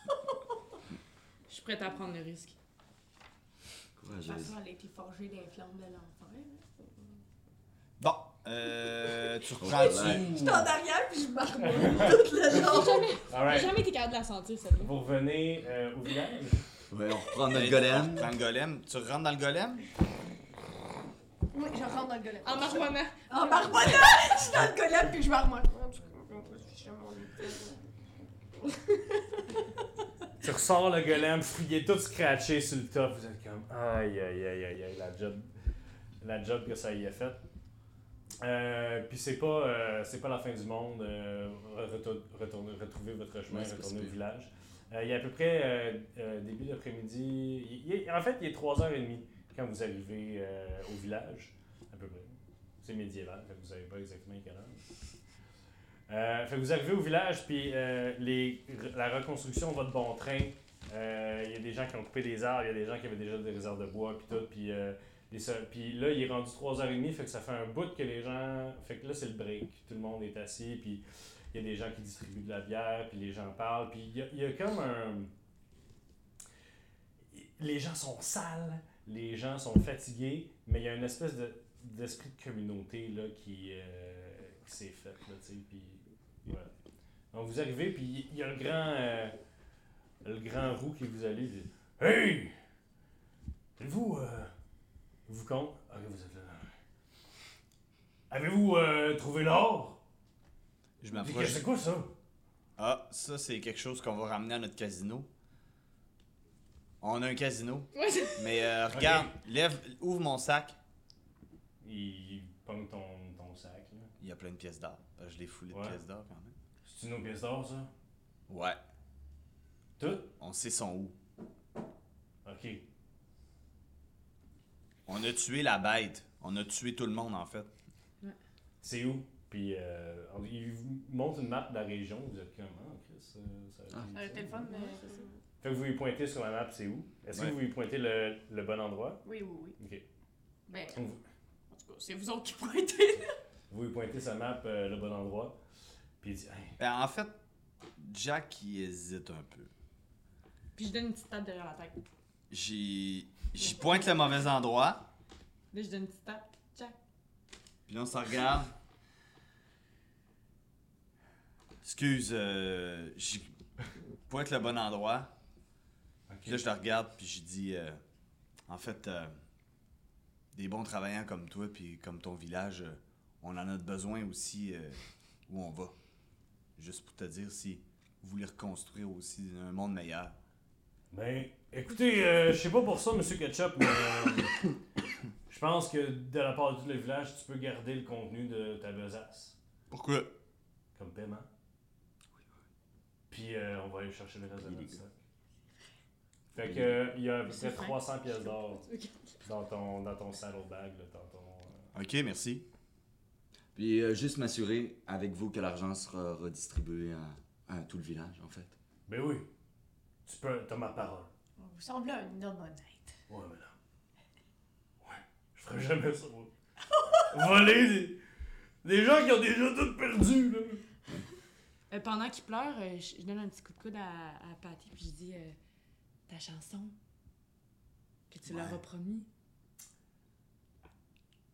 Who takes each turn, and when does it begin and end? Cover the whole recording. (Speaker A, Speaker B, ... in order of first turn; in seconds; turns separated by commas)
Speaker A: 1.5-2.6, Speaker B: 4.0-4.6, Speaker C: 4.2-7.2, Speaker D: 8.0-10.3, Speaker B: 9.6-10.6, Speaker C: 9.7-13.2, Speaker E: 10.1-10.7, Speaker E: 11.6-12.7, Speaker A: 12.4-14.9, Speaker E: 13.3-13.8, Speaker E: 14.8-16.7, Speaker B: 16.9-18.3, Speaker D: 17.5-19.8, Speaker C: 21.5-27.8, Speaker A: 22.4-24.1, Speaker C: 28.6-29.8, Speaker E: 30.4-35.5, Speaker E: 36.2-37.4, Speaker E: 38.4-54.9, Speaker B: 43.5-44.2, Speaker E: 56.1-75.3, Speaker E: 77.3-86.7, Speaker E: 87.3-89.4, Speaker E: 90.2-92.6, Speaker E: 93.8-94.5, Speaker E: 95.3-96.8, Speaker E: 98.3-100.0, Speaker D: 101.0-101.7, Speaker E: 101.1-102.1, Speaker D: 102.8-105.3, Speaker D: 107.0-110.8, Speaker A: 107.9-108.6, Speaker E: 108.9-109.3, Speaker E: 111.8-114.1, Speaker D: 114.2-116.5, Speaker E: 115.7-116.0, Speaker E: 116.8-117.9, Speaker D: 118.5-118.8, Speaker E: 120.0-120.3, Speaker D: 120.4-121.2, Speaker E: 122.5-122.8, Speaker D: 125.1-127.7, Speaker E: 128.8-134.7, Speaker C: 134.1-135.3, Speaker A: 134.7-135.2, Speaker E: 135.6-139.2, Speaker C: 139.2-139.8, Speaker E: 139.8-140.1, Speaker C: 140.7-141.0, Speaker E: 140.9-141.2, Speaker C: 141.7-143.4, Speaker E: 143.7-145.6, Speaker E: 146.2-146.8, Speaker D: 146.8-147.4, Speaker D: 148.0-149.7, Speaker A: 150.8-152.0, Speaker D: 152.5-155.0, Speaker A: 155.7-157.0, Speaker D: 157.9-158.7, Speaker D: 161.8-163.5, Speaker D: 164.3-165.3, Speaker E: 166.3-166.6, Speaker D: 166.5-168.0, Speaker D: 168.7-169.4, Speaker D: 170.5-175.9, Speaker D: 176.8-180.4, Speaker E: 181.1-184.7, Speaker E: 185.5-189.6, Speaker D: 189.9-190.3, Speaker E: 190.9-191.5, Speaker E: 193.3-195.2, Speaker E: 196.5-198.8, Speaker B: 196.6-197.1, Speaker A: 197.5-198.0, Speaker E: 199.4-201.9, Speaker D: 201.9-202.7, Speaker B: 203.8-208.8, Speaker E: 209.1-209.5, Speaker E: 210.3-211.3, Speaker C: 211.6-213.2, Speaker E: 213.3-213.7, Speaker E: 215.0-216.5, Speaker E: 217.3-218.2, Speaker E: 218.8-220.8, Speaker A: 221.9-225.6, Speaker A: 226.3-226.9, Speaker A: 228.3-229.3, Speaker B: 228.5-228.7